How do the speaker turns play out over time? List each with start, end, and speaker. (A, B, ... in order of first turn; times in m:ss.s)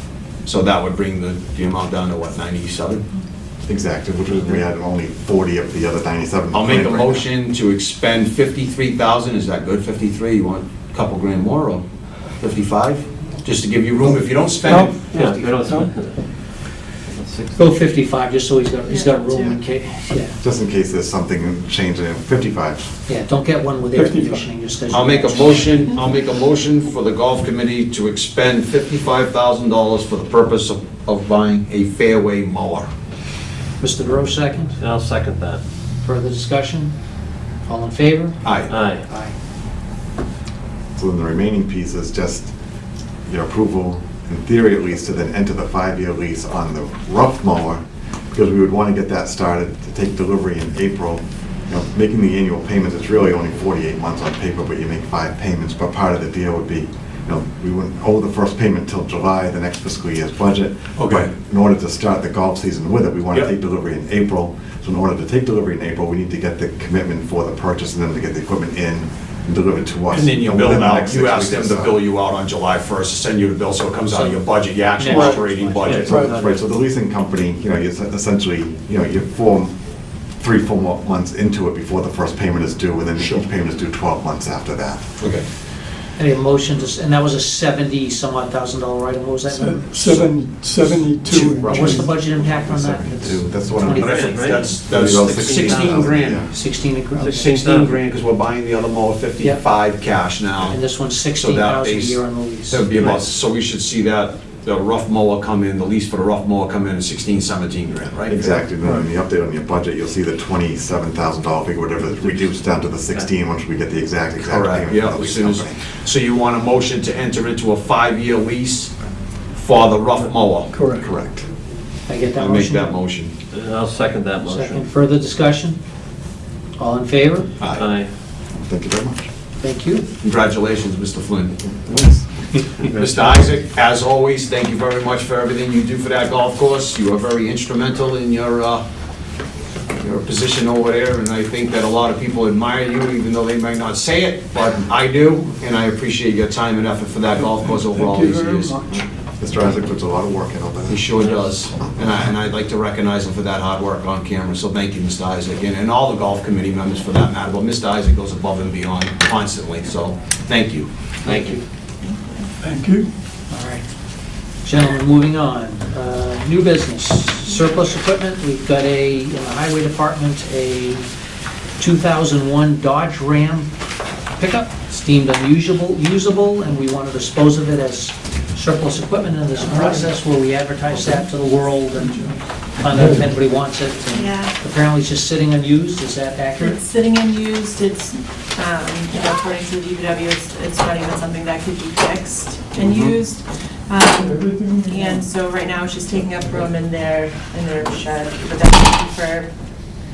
0:00.4-0:03.0 A
0:03.7-0:07.3 B
0:06.5-0:11.8 A
0:12.4-0:15.8 A
0:14.6-0:15.9 C
0:15.2-0:16.1 D
0:17.1-0:17.5 D
0:17.6-0:20.4 E
0:18.9-0:19.6 F
0:20.4-0:22.9 B
0:23.1-0:25.8 E
0:23.9-0:24.5 C
0:24.9-0:32.9 A
0:33.8-0:34.8 E
0:34.8-0:35.6 D
0:36.0-0:36.9 E
0:37.7-0:39.3 E
0:38.4-0:38.7 A
0:38.7-0:39.0 D
0:41.0-0:42.5 B
0:43.3-1:12.0 B
1:01.0-1:01.3 A
1:10.1-1:16.3 A
1:14.1-1:16.3 E
1:16.0-1:19.8 B
1:16.1-1:16.4 C
1:20.4-1:25.3 B
1:25.2-1:25.4 A
1:26.2-1:30.2 E
1:29.5-1:32.1 C
1:31.2-1:32.0 A
1:31.4-1:34.2 B
1:31.6-1:34.9 E
1:34.0-1:36.5 A
1:34.1-1:34.5 D
1:34.9-1:36.5 B
1:35.1-1:35.6 D
1:35.4-1:37.5 E
1:37.2-1:40.8 A
1:37.5-1:38.0 D
1:40.7-1:42.9 E
1:41.3-1:48.6 A
1:48.3-1:55.8 B
1:54.4-1:58.9 A
1:59.6-2:01.3 A
2:00.7-2:01.0 C
2:01.0-2:01.4 B
2:02.1-2:03.0 E
2:02.4-2:03.3 A
2:03.5-2:04.8 D
2:04.5-2:05.8 E
2:06.8-2:07.5 E
2:07.6-2:07.9 A
2:07.8-2:08.1 D
2:08.5-2:09.3 B
2:09.6-2:10.1 E
2:10.2-2:11.6 A
2:11.6-2:12.3 B
2:12.8-2:18.8 A
2:20.0-2:28.8 A
2:27.4-2:29.1 C
2:29.4-2:31.1 B
2:30.9-2:41.6 A
2:41.2-2:41.6 E
2:42.0-2:42.5 F
2:42.6-2:43.1 C
2:43.5-2:43.8 E
2:44.6-2:51.0 E
2:51.8-2:53.7 E
2:54.4-3:06.8 E
2:59.6-3:00.2 C
3:00.9-3:01.3 C
3:01.9-3:02.3 C
3:02.9-3:03.3 C
3:04.1-3:04.5 F
3:06.6-3:19.5 F
3:14.1-3:15.2 C